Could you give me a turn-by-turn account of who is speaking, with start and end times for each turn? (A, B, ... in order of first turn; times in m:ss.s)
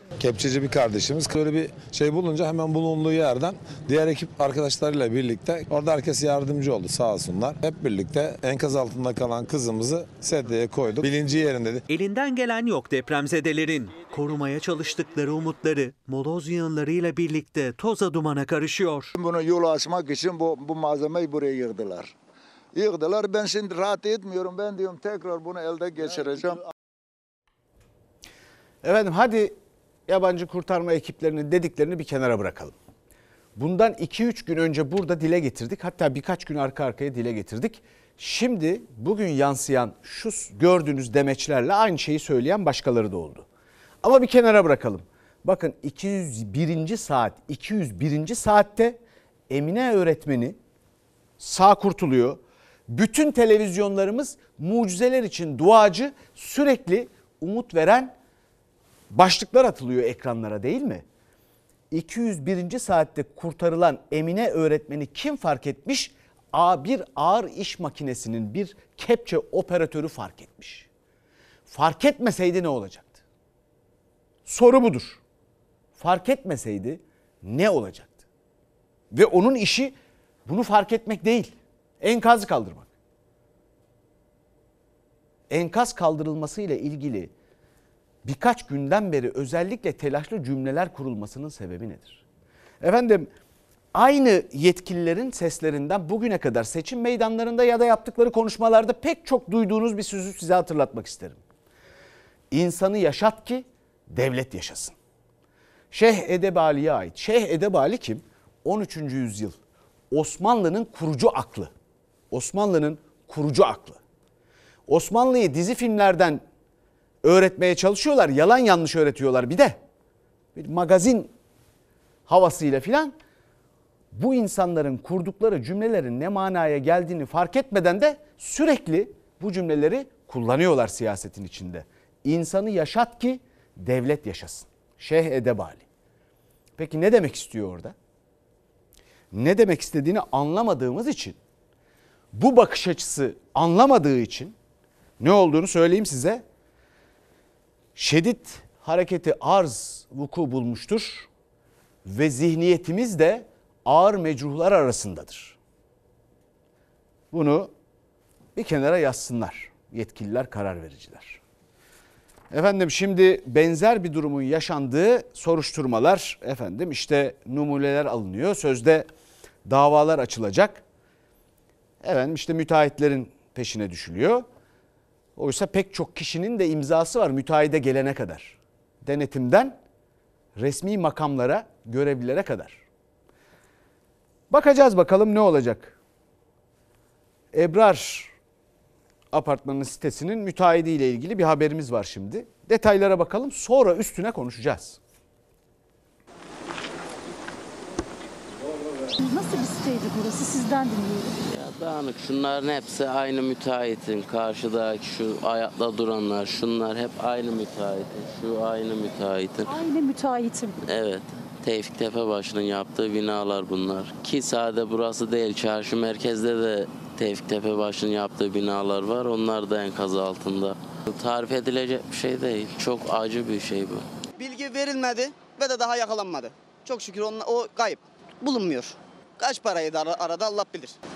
0:00.2-0:11.8 A
0:11.9-0:19.1 B
0:19.1-0:22.1 C
0:22.7-0:26.6 C
0:28.8-0:29.6 D
0:30.1-0:32.7 D
0:33.6-0:43.4 D
0:44.0-0:49.0 D
0:49.5-0:50.6 D
0:51.4-0:58.1 D
0:59.1-1:01.0 D
1:01.9-1:10.9 D
1:11.7-1:13.2 D
1:14.4-1:15.2 D
1:16.0-1:18.2 D
1:19.1-1:22.9 D
1:25.5-1:27.3 D
1:28.2-1:32.2 D
1:32.8-1:33.3 D
1:33.9-1:41.4 D
1:42.5-1:44.9 D
1:45.9-1:49.6 D
1:50.1-1:51.7 D
1:52.3-1:54.0 D
1:54.9-1:56.4 D
1:57.2-1:59.8 D
2:00.5-2:01.3 D
2:02.3-2:03.2 D
2:04.1-2:15.8 D
2:16.8-2:17.9 D
2:19.3-2:21.4 D
2:22.3-2:24.5 D
2:25.2-2:26.4 D
2:28.0-2:31.3 D
2:32.0-2:35.6 D
2:37.3-2:37.7 D
2:38.5-2:41.4 D
2:42.5-2:49.1 D
2:49.6-2:50.8 D
2:52.0-2:54.5 D
2:55.4-2:59.8 D
3:00.6-3:02.8 D
3:04.5-3:06.0 D
3:07.5-3:08.3 D
3:09.3-3:15.0 D
3:19.2-3:21.4 E
3:21.4-3:29.7 F
3:29.7-3:30.7 E
3:30.8-3:44.0 F
3:44.4-3:50.9 G